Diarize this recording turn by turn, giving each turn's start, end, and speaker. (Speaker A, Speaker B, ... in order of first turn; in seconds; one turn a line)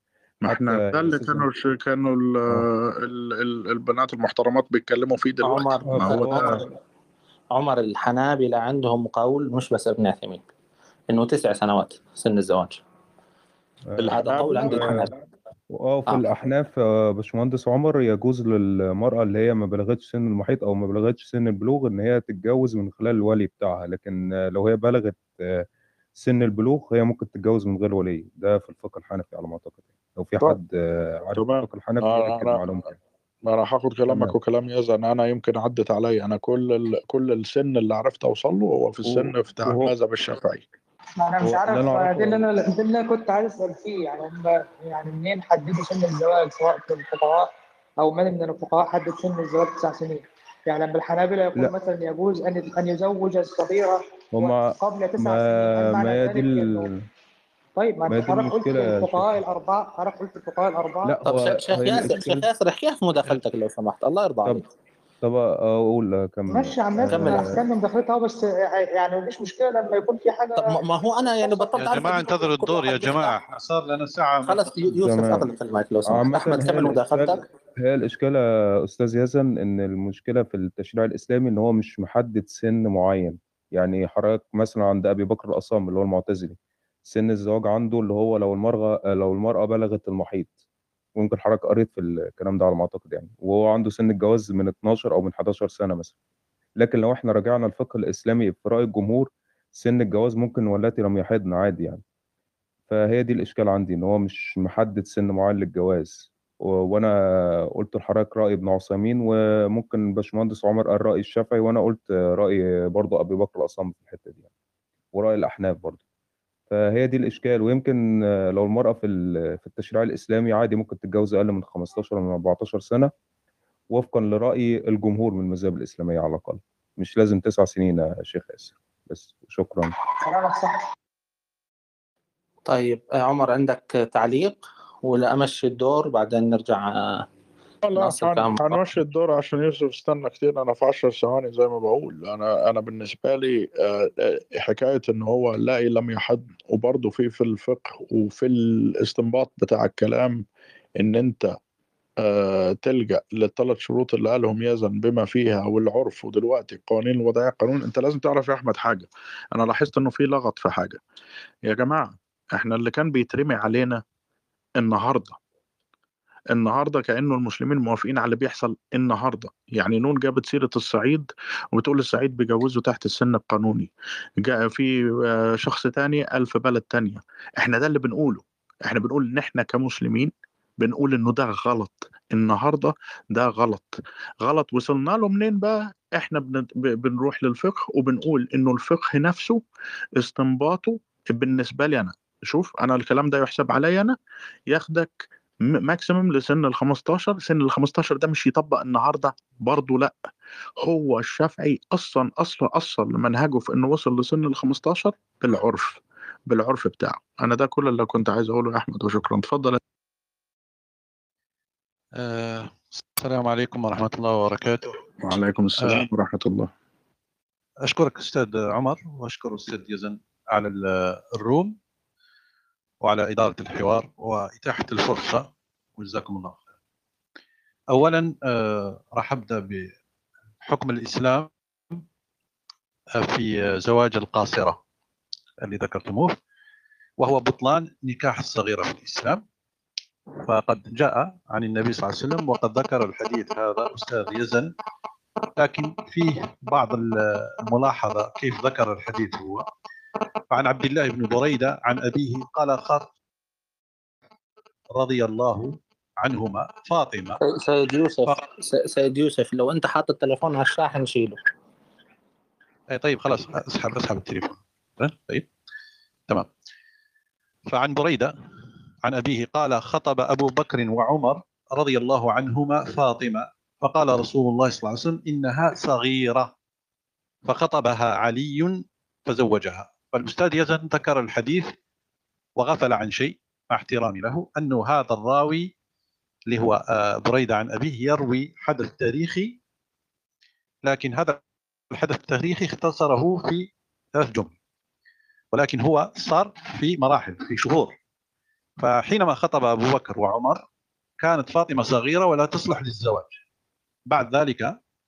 Speaker A: 0.5-6.7
Speaker B: 0.5-1.5
Speaker C: 5.4-6.7
Speaker B: 5.9-6.7
Speaker C: 7.5-10.5
Speaker C: 11.1-12.8
Speaker B: 13.9-15.1
Speaker C: 14.0-15.1
Speaker A: 14.2-15.2
Speaker B: 15.7-25.6
Speaker B: 26.2-33.0
Speaker A: 31.4-32.6
Speaker A: 33.5-40.7
Speaker B: 34.1-34.4
Speaker B: 39.0-39.9
Speaker D: 41.2-56.9
Speaker B: 41.4-42.5
Speaker B: 54.3-57.1
Speaker D: 57.8-61.2
Speaker B: 58.1-59.4
Speaker B: 61.0-62.5
Speaker C: 61.2-64.7
Speaker B: 65.2-67.6
Speaker D: 66.5-70.8
Speaker C: 67.1-67.4
Speaker C: 70.6-73.4
Speaker E: 71.8-74.9
Speaker C: 74.5-77.4
Speaker B: 75.0-75.5
Speaker B: 76.1-90.5
Speaker B: 91.2-96.1
Speaker B: 96.8-102.0
Speaker B: 102.9-107.1
Speaker B: 107.8-114.5
Speaker B: 115.1-116.0
Speaker B: 116.7-118.0
Speaker B: 118.5-123.1
Speaker B: 123.9-129.9
Speaker D: 130.2-130.8
Speaker C: 132.7-137.3
Speaker A: 137.8-150.4
Speaker C: 138.0-139.0
Speaker A: 151.0-151.5
Speaker A: 152.2-161.0
Speaker A: 161.7-164.0
Speaker A: 164.8-165.4
Speaker A: 166.5-174.9
Speaker A: 175.6-189.6
Speaker A: 190.2-194.2
Speaker A: 194.7-200.2
Speaker A: 200.8-209.8
Speaker E: 212.2-215.0
Speaker A: 215.2-216.7
Speaker E: 217.9-221.8
Speaker E: 223.0-226.7
Speaker E: 227.9-229.9
Speaker E: 230.6-232.0
Speaker E: 233.2-234.8
Speaker E: 235.6-236.4
Speaker E: 237.2-239.4
Speaker E: 240.5-244.7
Speaker E: 245.6-249.7
Speaker E: 250.5-253.1
Speaker E: 254.9-257.4
Speaker C: 257.4-261.4
Speaker E: 262.9-265.5
Speaker E: 267.7-268.3
Speaker E: 269.1-276.5
Speaker E: 277.5-281.7
Speaker E: 282.6-285.7
Speaker E: 286.5-289.5
Speaker E: 290.8-291.4
Speaker E: 291.9-294.5
Speaker E: 295.5-298.0
Speaker E: 298.8-300.6
Speaker E: 301.2-303.3
Speaker E: 304.1-304.7